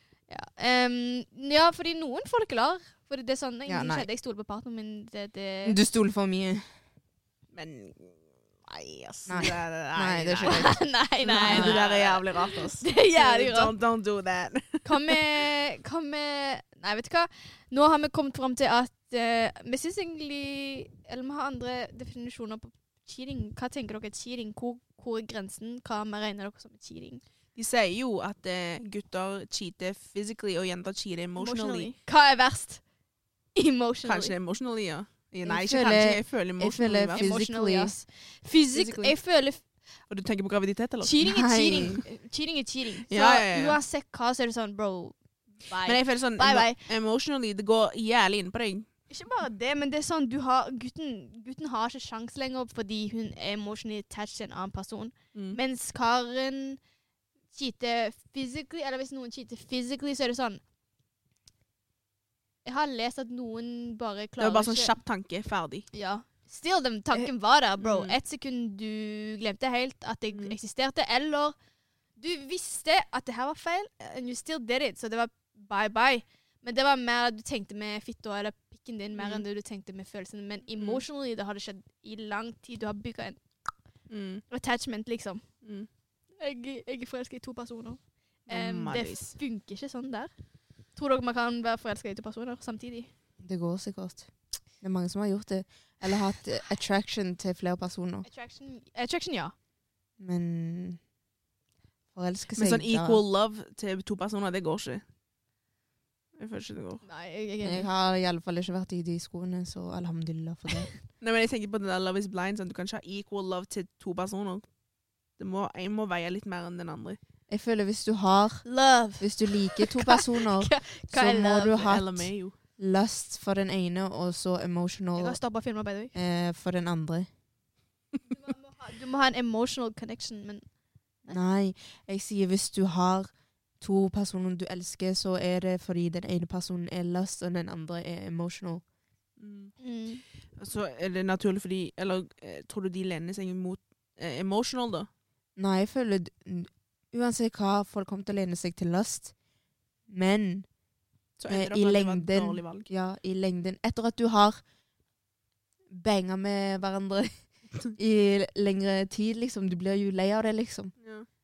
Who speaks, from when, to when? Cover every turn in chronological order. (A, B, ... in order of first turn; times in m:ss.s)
0:00.3-0:05.8 A
0:03.7-0:04.1 B
0:05.6-0:06.6 B
0:07.5-0:15.2 C
0:09.3-0:10.9 B
0:10.4-0:13.7 A
0:11.4-0:11.8 B
0:14.8-0:27.2 A
0:27.6-0:31.9 C
0:31.4-0:32.8 A
0:33.6-0:34.3 A
0:34.0-0:37.3 C
0:35.4-0:38.0 B
0:37.2-0:39.6 A
0:38.7-0:39.2 C
0:40.1-0:41.2 C
0:41.0-0:46.8 A
0:41.2-0:42.0 B
0:41.7-0:42.0 C
0:43.1-0:43.8 C
0:45.9-0:48.9 C
0:49.1-0:56.8 A
0:55.3-0:55.6 C
0:57.5-1:00.6 A
1:02.6-1:04.9 A
1:04.4-1:05.9 C
1:05.9-1:11.6 A
1:07.8-1:08.2 C
1:10.3-1:10.6 C
1:12.2-1:23.4 A
1:19.2-1:19.4 C
1:20.8-1:21.0 C
1:24.1-1:24.4 C
1:24.5-1:25.4 A
1:25.6-1:25.9 C
1:26.4-1:30.3 A
1:28.5-1:29.4 C
1:31.0-1:33.1 A
1:33.4-1:34.3 B
1:34.8-1:38.3 B
1:38.2-1:39.5 A
1:40.2-1:41.0 B
1:42.1-1:43.2 B
1:42.6-1:45.0 C
1:46.4-1:47.0 C
1:47.0-1:47.9 A
1:47.6-1:50.9 B
1:51.2-1:54.7 C
1:55.4-1:57.2 C
1:57.5-2:05.4 B
1:58.6-2:01.8 A
2:01.7-2:02.6 C
2:05.2-2:06.1 A
2:06.1-2:07.3 B
2:08.3-2:10.7 A
2:11.3-2:18.8 B
2:19.4-2:19.8 C
2:19.8-2:20.2 A
2:20.6-2:25.1 C
2:25.6-2:29.3 B
2:30.1-2:30.7 B
2:31.4-2:32.9 C
2:31.5-2:34.6 B
2:35.9-2:37.3 B
2:38.0-2:40.9 B
2:41.0-2:41.3 C